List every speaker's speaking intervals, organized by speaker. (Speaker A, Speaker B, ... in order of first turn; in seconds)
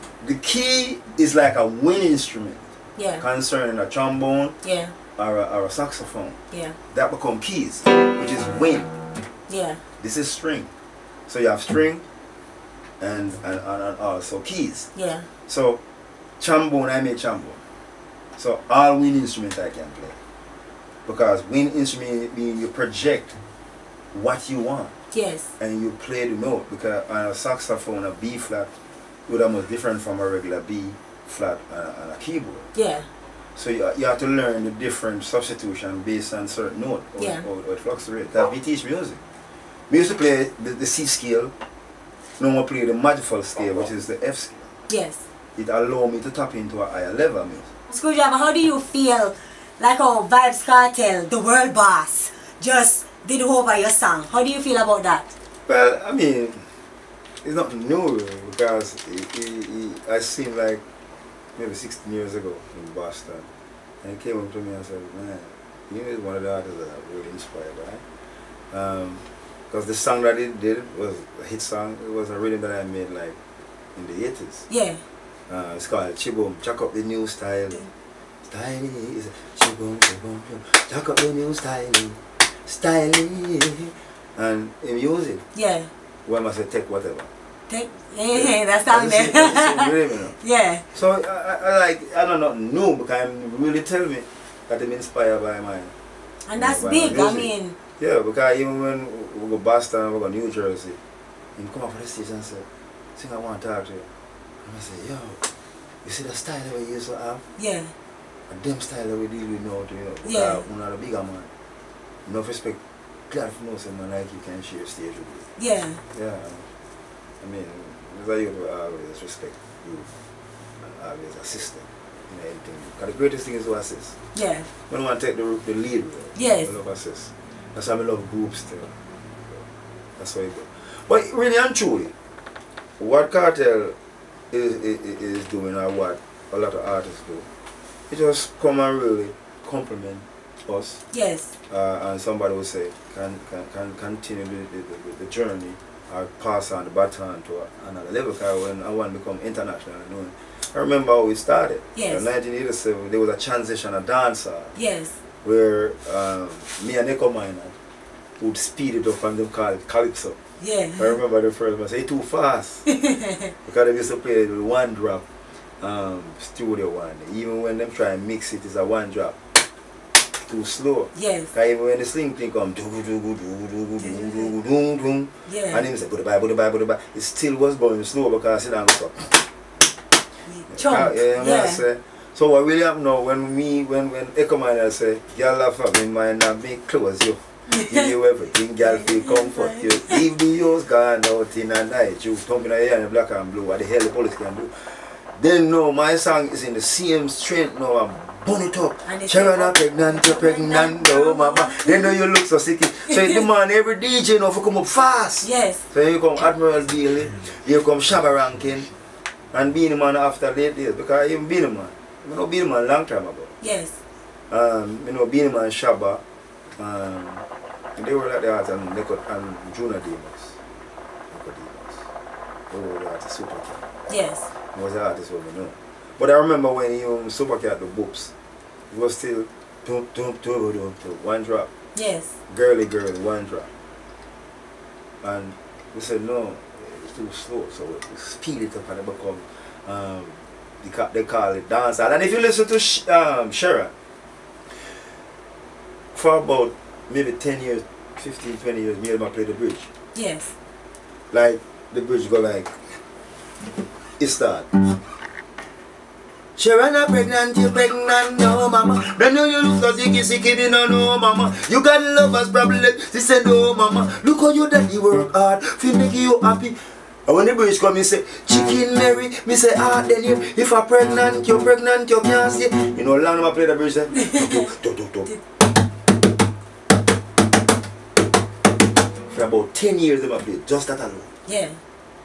Speaker A: 0.2-2.6, 3.2-4.5, 5.2-6.4, 6.9-8.9, 10.0-10.7, 11.3-12.0, 13.0-14.9, 15.5-15.8, 16.4-17.6, 18.4-20.2, 21.1-23.4, 24.1-24.9, 25.6-28.7, 29.3-32.7, 33.5-39.2, 39.9-41.5, 42.4-44.6, 45.5-47.7, 55.6-56.6, 57.4-60.8, 61.5-63.5, 64.0-68.0, 68.7-73.4, 73.9-74.7, 75.5-77.8, 78.4-85.4, 86.2-87.3, 88.3-90.3, 90.9-95.9, 96.5-101.0, 101.5-104.0, 104.6-105.5, 106.0-107.4, 108.5-111.5, 112.2-115.5, 116.1-116.7, 117.4-120.1, 120.8-124.2, 124.9-128.9, 130.2-132.1, 133.0-133.9, 134.5-137.5, 138.1-141.0, 141.7-154.7, 155.4-157.7, 158.4-160.4, 161.0-162.8, 163.6-165.2, 165.8-169.4, 170.5-179.4, 180.7-194.7, 195.3-208.9, 209.5-213.5, 214.5-216.2, 216.8-217.4, 218.0-220.6, 221.3-222.1, 222.7-223.8, 224.7-228.3, 228.9-231.7, 232.5-233.7, 235.2-243.9, 246.1-249.9, 251.3-252.7, 254.2-254.7, 256.6-275.3, 279.3-281.3
Speaker B: 3.0-3.2, 4.6-4.9, 6.5-6.8, 9.5-9.8, 14.9-15.2, 25.1-25.5, 32.7-33.0, 37.2-37.4, 44.9-45.2, 47.9-55.3, 74.7-75.0, 85.5-85.9, 87.7-90.8, 96.5-97.8, 107.6-107.9, 110.2-110.6, 115.6-116.0, 124.3-124.7, 126.3-126.7, 141.1-141.5, 151.9-152.2, 154.8-155.1, 160.6-161.1, 162.9-163.5, 171.1-171.5, 174.0-174.5, 175.5-175.8, 180.5-181.8, 187.7-188.1, 188.9-190.2, 199.1-202.1, 203.1-203.4, 205.4-205.8, 213.6-213.9, 224.1-224.5, 231.9-232.3, 250.1-250.5, 274.1-274.7, 281.5-281.8